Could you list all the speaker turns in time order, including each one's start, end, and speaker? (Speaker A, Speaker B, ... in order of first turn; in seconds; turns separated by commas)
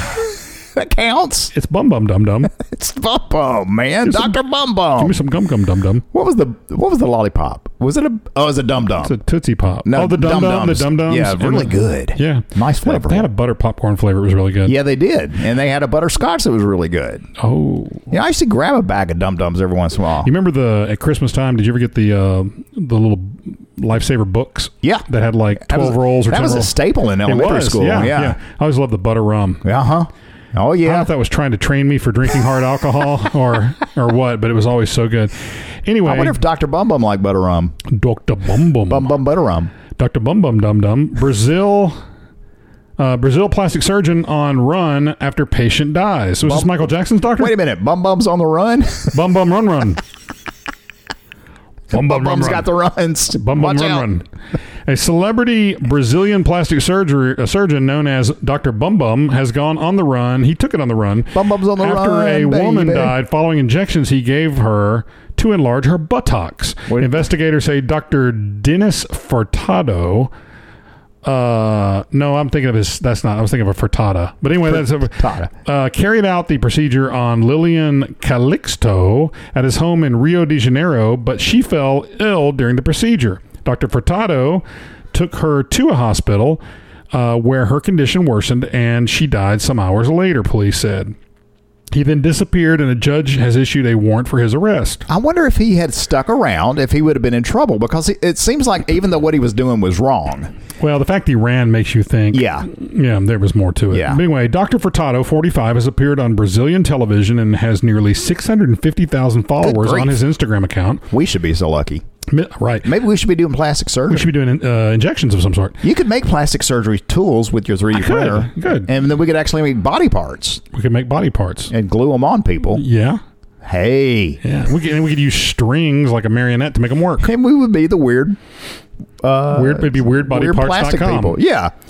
Speaker A: 0.8-1.5, Speaker B: 1.5-2.5, Speaker A: 2.5-5.2, Speaker B: 4.1-4.3, Speaker B: 5.0-6.0, Speaker A: 6.1-9.2, Speaker B: 9.0-14.8, Speaker A: 9.8-13.3, Speaker A: 14.7-17.3, Speaker B: 17.4-18.1, Speaker A: 18.1-20.3, Speaker B: 20.2-29.6, Speaker A: 25.6-28.4, Speaker A: 29.6-31.1, Speaker B: 30.9-36.4, Speaker A: 36.0-37.8, Speaker B: 37.9-39.1, Speaker A: 38.9-39.7, Speaker B: 40.0-42.0, Speaker B: 43.0-47.6, Speaker A: 46.4-46.8, Speaker A: 47.4-49.2, Speaker B: 49.1-50.0, Speaker B: 51.9-52.7, Speaker A: 51.9-54.1, Speaker B: 53.3-54.2, Speaker B: 54.9-70.3, Speaker A: 61.3-63.1, Speaker A: 66.9-67.2, Speaker B: 71.2-91.2, Speaker A: 74.7-75.5, Speaker B: 91.9-95.1, Speaker A: 95.1-100.5, Speaker B: 100.8-111.0, Speaker A: 102.3-102.7, Speaker A: 103.9-104.2, Speaker A: 109.6-110.2, Speaker A: 111.1-112.0, Speaker B: 112.3-112.9, Speaker A: 112.8-114.3, Speaker B: 114.1-115.8, Speaker A: 115.8-120.6, Speaker B: 117.9-118.9, Speaker B: 120.7-121.7, Speaker A: 121.7-122.8, Speaker B: 122.7-123.2, Speaker A: 123.6-124.4, Speaker B: 124.4-127.3, Speaker A: 127.2-128.4, Speaker A: 129.2-131.7, Speaker B: 129.5-131.4